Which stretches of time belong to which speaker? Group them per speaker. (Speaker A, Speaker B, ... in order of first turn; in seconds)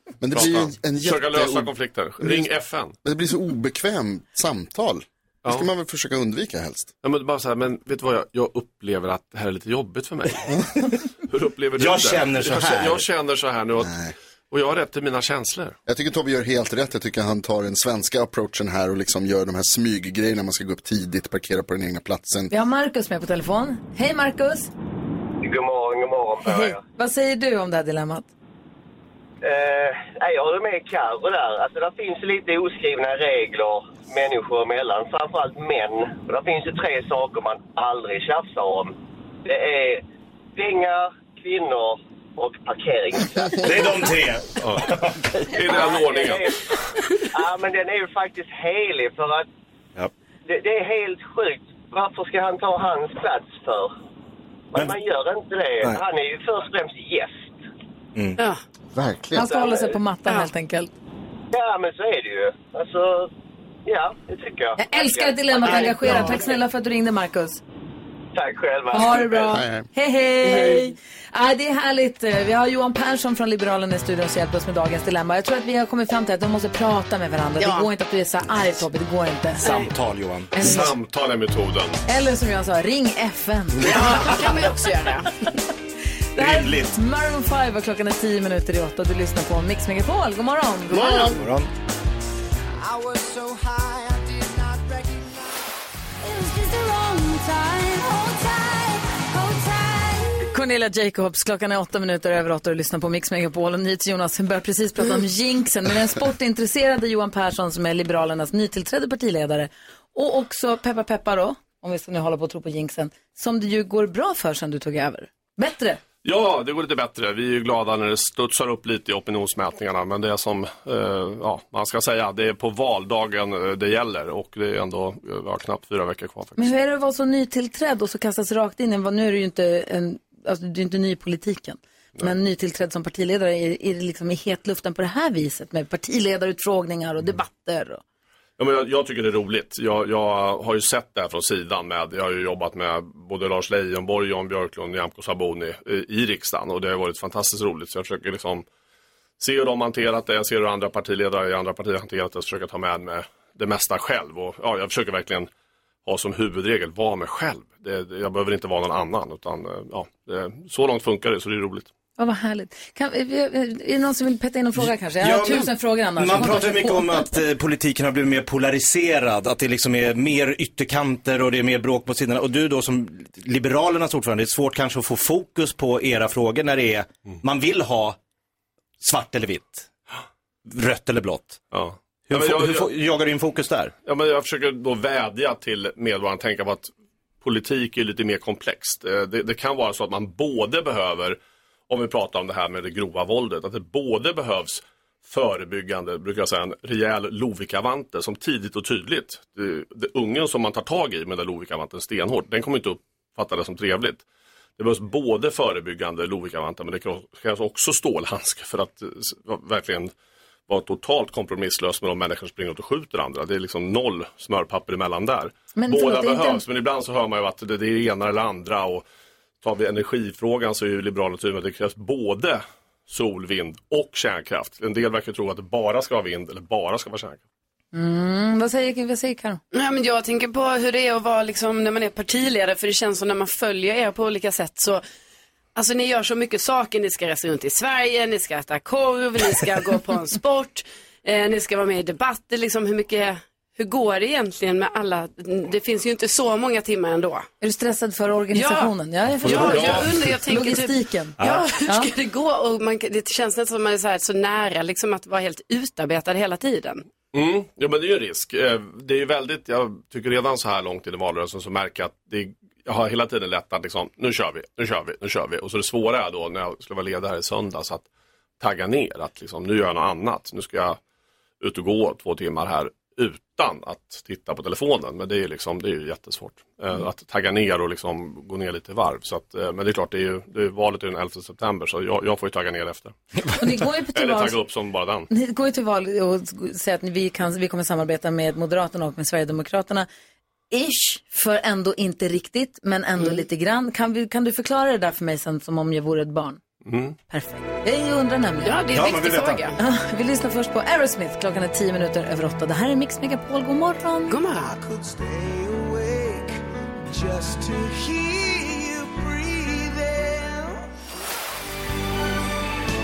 Speaker A: 0.2-2.5, 3.0-6.9, 13.8-14.1, 15.8-22.5, 58.9-59.5, 69.5-69.9, 91.0-91.3
Speaker B: 0.3-2.9, 7.0-10.4, 11.3-13.9, 14.5-15.8, 44.6-44.9, 45.4-46.5, 80.6-82.0, 116.2-126.7, 138.6-148.6, 149.4-155.5, 156.1-161.9, 181.7-182.9, 184.0-186.9, 187.4-191.4, 191.9-204.2, 204.8-210.1, 210.7-219.0, 219.6-227.4, 249.6-250.1, 257.3-268.1, 268.6-271.0, 271.6-283.1, 284.1-285.3, 296.8-297.2
Speaker C: 11.8-13.0, 43.6-45.2, 65.8-66.1, 79.6-80.9, 86.4-86.9, 91.1-91.7, 164.8-178.2, 179.0-179.9, 180.7-181.6, 182.3-183.9, 249.4-250.1, 251.4-251.7, 298.9-299.6
Speaker D: 22.5-24.7, 26.4-28.3, 59.3-60.9, 64.8-67.6, 68.9-79.7, 80.5-80.9, 82.0-84.3, 86.3-91.3, 100.5-116.0, 126.6-138.0, 162.2-167.3, 215.7-216.6, 227.9-229.6, 247.6-252.1, 283.5-284.6, 285.3-290.1, 290.7-296.6, 297.3-298.8, 299.8-304.3
Speaker E: 25.4-26.8, 29.4-38.9, 39.5-40.0, 40.5-43.6, 45.7-46.6, 47.3-49.5, 50.5-53.9, 54.7-57.5, 61.5-63.3, 63.9-66.4, 68.3-69.5
Speaker F: 70.4-70.9, 77.6-77.9, 79.6-79.9, 83.8-85.3, 229.7-235.0, 235.8-247.5, 248.5-248.9, 249.4-257.1, 293.2-293.4, 298.6-299.8, 304.3-304.8
Speaker G: 92.8-95.3, 96.2-100.3, 307.4-309.1